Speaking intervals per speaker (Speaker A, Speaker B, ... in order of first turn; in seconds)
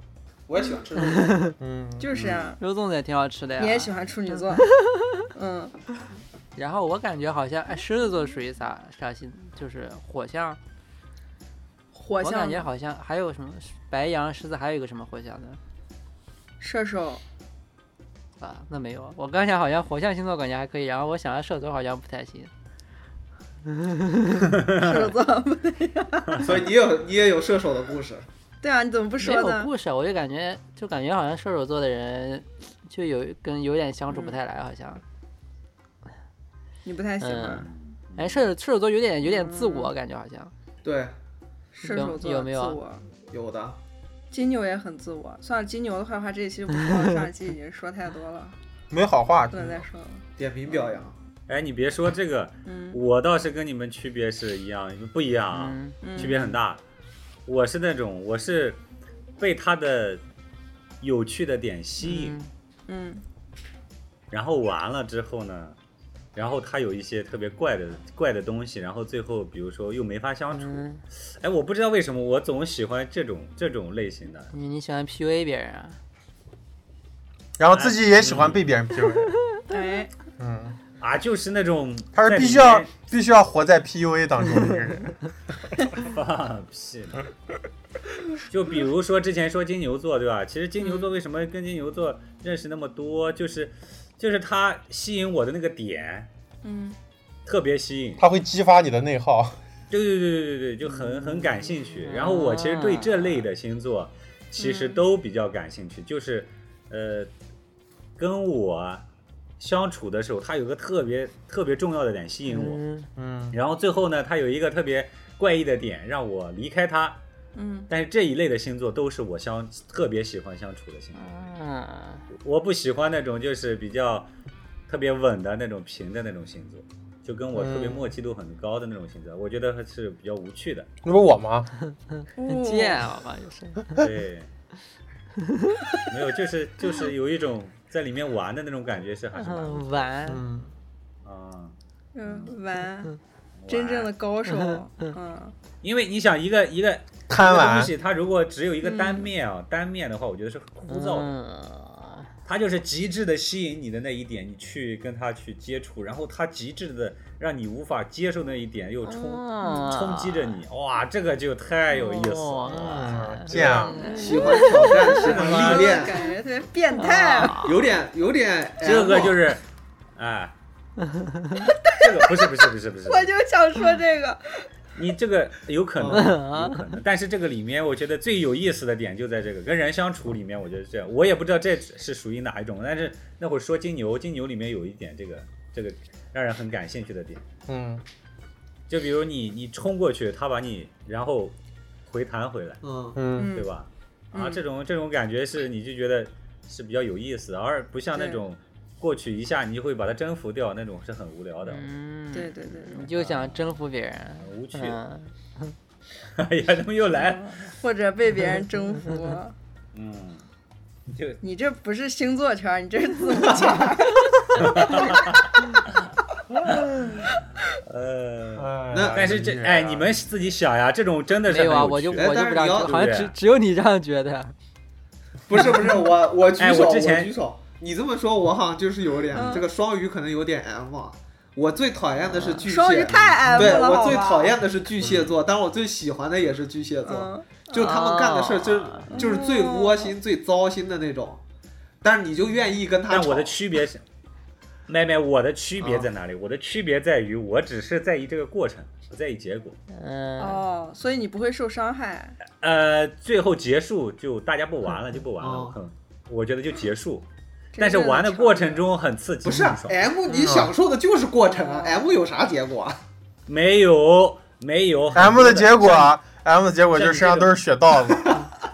Speaker A: 0.5-1.5, 2.1-2.5, 26.4-28.3, 40.8-41.1, 43.3-43.8, 50.4-51.2, 164.1-166.3, 167.5-169.5, 176.0-176.3, 192.8-193.2, 218.9-219.3, 222.2-223.1, 225.5-241.4, 242.0-243.6, 245.8-246.1, 255.4-255.8, 259.4-263.0
Speaker B: 1.2-1.5, 2.6-4.0, 4.6-5.0, 6.5-10.6, 12.2-15.6, 18.4-22.5, 23.7-24.5, 29.2-35.0, 37.2-40.5, 41.8-42.8, 55.5-56.6, 62.0-62.5, 70.5-71.0, 74.5-76.0, 101.0-103.4, 112.5-113.1, 121.2-122.3, 132.4-134.0, 135.4-135.8, 139.3-140.4, 150.9-152.3, 159.1-160.6, 161.9-165.4, 166.9-167.8, 171.1-171.7, 176.1-176.8, 201.7-205.8, 221.4-224.5, 237.8-239.3, 249.9-250.6
Speaker C: 1.6-2.1, 48.9-49.8, 77.6-79.3, 80.4-80.8, 82.2-85.2, 98.2-99.6, 113.2-113.6, 127.5-128.1, 131.0-131.7, 140.3-140.7, 147.3-147.9, 162.7-164.0, 187.7-188.0, 193.2-193.5, 218.6-220.2, 235.0-235.3, 260.3-260.7, 265.1-268.4
Speaker D: 2.0-2.6, 3.6-4.7, 5.3-5.8, 11.9-12.7, 16.6-17.2, 24.7-26.5, 28.6-29.7, 34.1-34.4, 36.9-37.7, 39.2-39.9, 41.7-43.1, 44.3-48.6, 49.5-50.2, 52.7-53.0, 56.0-56.4, 62.9-63.2, 79.7-80.1, 96.6-97.0, 104.6-105.0, 117.5-117.9, 132.4-133.1, 142.1-143.2, 143.7-145.5, 148.8-149.3, 159.6-159.9, 163.9-167.8, 171.6-174.7, 193.4-193.7, 194.3-194.6, 198.2-198.4, 202.3-203.1, 207.1-209.5, 211.4-215.2, 229.3-229.7, 232.6-234.6, 237.0-238.0, 239.1-240.1, 250.4-252.4, 257.8-258.9, 261.6-262.1
Speaker E: 37.7-38.4, 51.5-56.8, 57.5-58.8, 59.4-60.2, 61.0-62.4, 64.3-65.8, 66.3-70.9, 71.4-74.5, 77.7-78.7, 81.0-82.9, 86.0-87.3, 88.5-96.3, 97.5-98.2, 99.9-107.3, 108.2-109.0, 109.6-112.8, 113.5-117.2, 117.9-121.3, 122.3-124.3, 124.9-130.9, 134.0-134.5, 136.0-140.1, 141.2-141.8, 143.6-144.1, 145.8-151.3, 152.5-164.1, 165.1-166.1, 168.8-169.6, 170.2-170.5, 171.9-173.3, 174.9-187.4, 188.9-191.6, 192.1-192.8, 193.5-201.9, 203.1-203.8, 204.4-205.0, 206.3-207.7, 209.9-210.4, 211.1-211.4, 214.6-216.1, 216.7-223.3, 226.6-227.3, 243.1-244.0, 244.9-249.8, 252.6-257.3, 257.8-260.1, 263.5-266.2, 266.9-267.5